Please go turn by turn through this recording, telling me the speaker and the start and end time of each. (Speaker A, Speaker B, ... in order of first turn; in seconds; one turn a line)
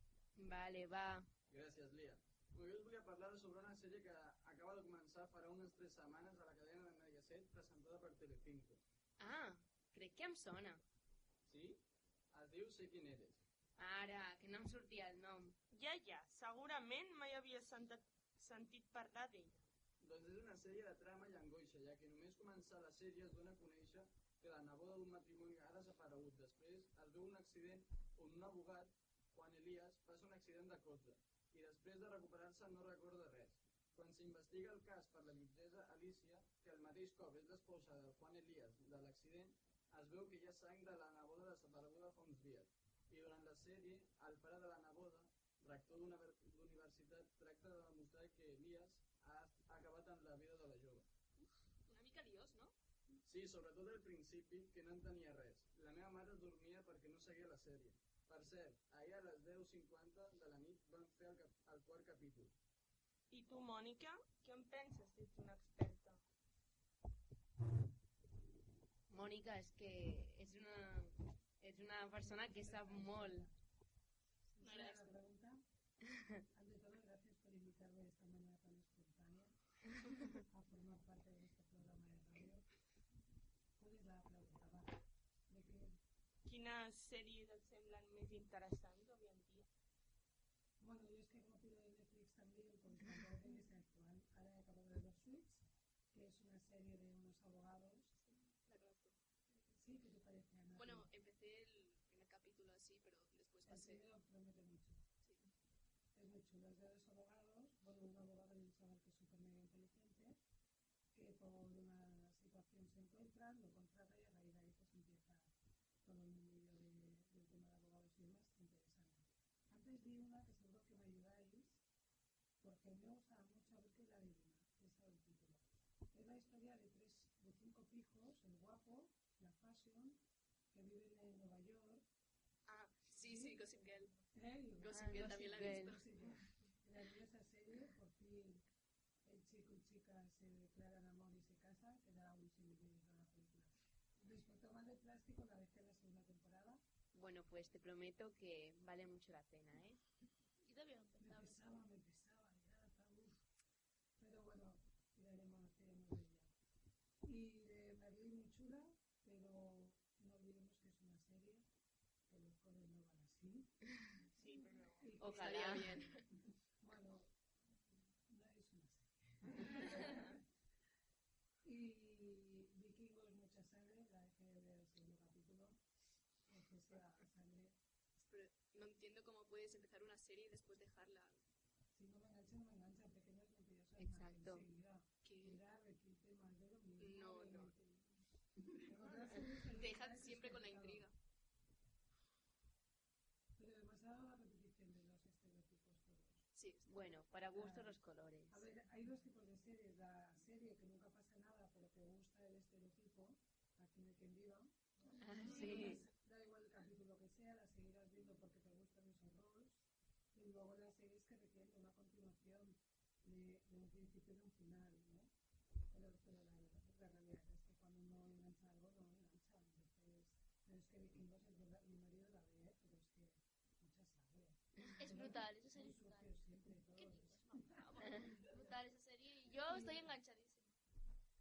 Speaker A: 0.3-1.3
Speaker B: 1.5-8.8
Speaker A: 9.2-10.8
Speaker B: 11.4-13.4
Speaker A: 13.8-15.6
Speaker C: 15.7-19.6
Speaker B: 20.0-51.1
Speaker D: 51.4-52.7
Speaker B: 53.2-62.5
Speaker C: 63.3-66.2
Speaker A: 69.1-73.5
Speaker E: 72.1-73.5
Speaker E: 74.6-75.6
Speaker D: 74.7-74.9
Speaker E: 76.4-82.7
Speaker E: 83.8-86.0
Speaker C: 86.4-89.7
Speaker E: 90.8-98.1
Speaker D: 98.2-99.2
Speaker E: 99.5-101.1
Speaker D: 100.8-104.0
Speaker E: 103.7-105.0
Speaker D: 105.2-105.5
Speaker E: 106.1-110.4
Speaker E: 111.1-121.8
Speaker E: 122.6-132.1
Speaker D: 132.7-134.2
Speaker E: 133.2-133.6
Speaker E: 134.3-138.7
Speaker D: 134.8-136.0
Speaker A: 134.9-136.0
Speaker E: 139.2-146.8
Speaker A: 147.1-150.0
Speaker F: 150.6-151.6
Speaker E: 151.2-153.4
Speaker E: 154.2-156.5
Speaker E: 157.2-161.7
Speaker E: 162.3-164.1
Speaker C: 164.3-165.0
Speaker E: 165.0-166.2
Speaker A: 165.2-166.2
Speaker D: 165.3-166.0
Speaker E: 166.8-170.4
Speaker E: 171.6-175.8
Speaker E: 176.5-177.8
Speaker D: 178.2-181.4
Speaker E: 181.9-191.1
Speaker A: 184.0-184.7
Speaker D: 185.2-185.6
Speaker D: 187.0-187.7
Speaker D: 189.6-191.1
Speaker E: 193.6-196.5
Speaker D: 196.5-197.0
Speaker A: 196.8-198.6
Speaker E: 197.5-215.3
Speaker A: 205.2-206.0
Speaker E: 215.9-228.8
Speaker F: 225.0-226.3
Speaker F: 226.9-230.8
Speaker E: 229.5-230.1